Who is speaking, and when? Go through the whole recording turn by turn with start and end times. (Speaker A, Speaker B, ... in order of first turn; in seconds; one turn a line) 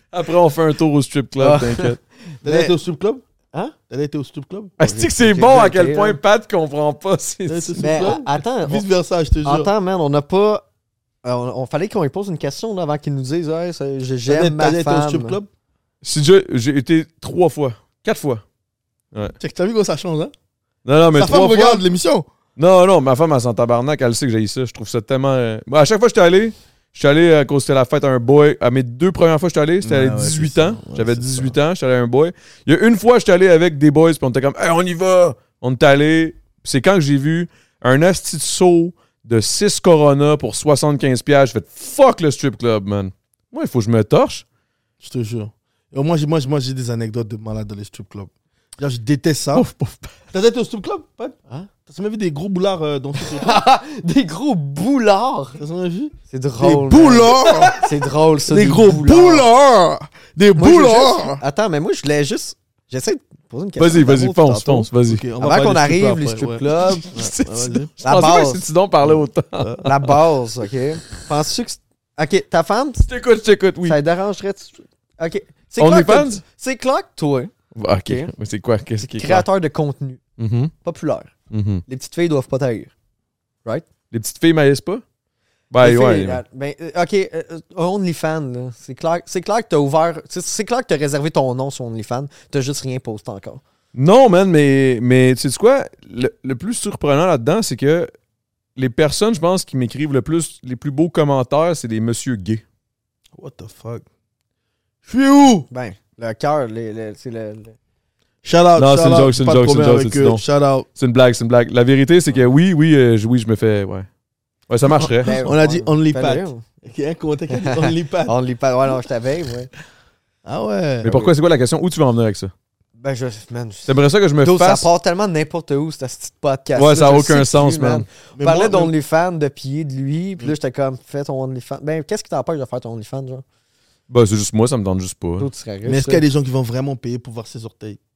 Speaker A: 0.1-2.0
Speaker B: 1.4-2.8
Speaker C: 2.4-3.2
Speaker C: 3.9-4.8
Speaker A: 4.8-7.8
Speaker B: 4.8-6.2
Speaker C: 7.5-9.7
Speaker B: 7.8-8.8
Speaker B: 9.4-10.6
Speaker B: 11.2-15.4
Speaker C: 14.3-15.5
Speaker A: 16.0-18.4
Speaker C: 19.4-20.3
Speaker A: 20.9-21.8
Speaker C: 21.1-22.3
Speaker A: 22.6-44.4
Speaker C: 29.8-31.6
Speaker C: 45.0-49.7
Speaker A: 49.5-50.2
Speaker C: 50.3-53.6
Speaker B: 53.2-55.6
Speaker C: 55.6-57.8
Speaker B: 56.3-59.5
Speaker C: 58.5-61.4
Speaker B: 60.6-64.9
Speaker A: 63.8-65.2
Speaker C: 65.1-67.9
Speaker B: 65.4-67.1
Speaker A: 67.0-70.1
Speaker B: 68.0-68.6
Speaker C: 69.0-69.9
Speaker B: 69.8-73.1
Speaker A: 73.1-74.0
Speaker B: 73.8-77.5
Speaker A: 75.8-76.4
Speaker A: 77.8-79.5
Speaker B: 79.0-80.2
Speaker A: 80.4-80.7
Speaker B: 80.8-81.3
Speaker A: 81.5-81.8
Speaker B: 81.9-82.9
Speaker A: 84.1-85.0
Speaker A: 85.7-86.4
Speaker B: 85.8-93.6
Speaker A: 93.9-98.1
Speaker A: 98.8-102.6
Speaker C: 103.3-104.1
Speaker C: 105.0-105.7
Speaker B: 105.7-107.8
Speaker C: 108.4-110.9
Speaker A: 108.8-110.4
Speaker A: 111.0-114.1
Speaker A: 114.7-115.3
Speaker C: 115.0-118.3
Speaker B: 115.2-116.6
Speaker B: 117.5-119.7
Speaker C: 120.5-121.3
Speaker A: 121.0-122.5
Speaker B: 123.0-123.9
Speaker A: 123.9-124.9
Speaker B: 124.4-133.4
Speaker A: 126.8-128.1
Speaker C: 128.3-128.9
Speaker A: 134.1-135.5
Speaker B: 135.4-136.2
Speaker C: 135.8-138.0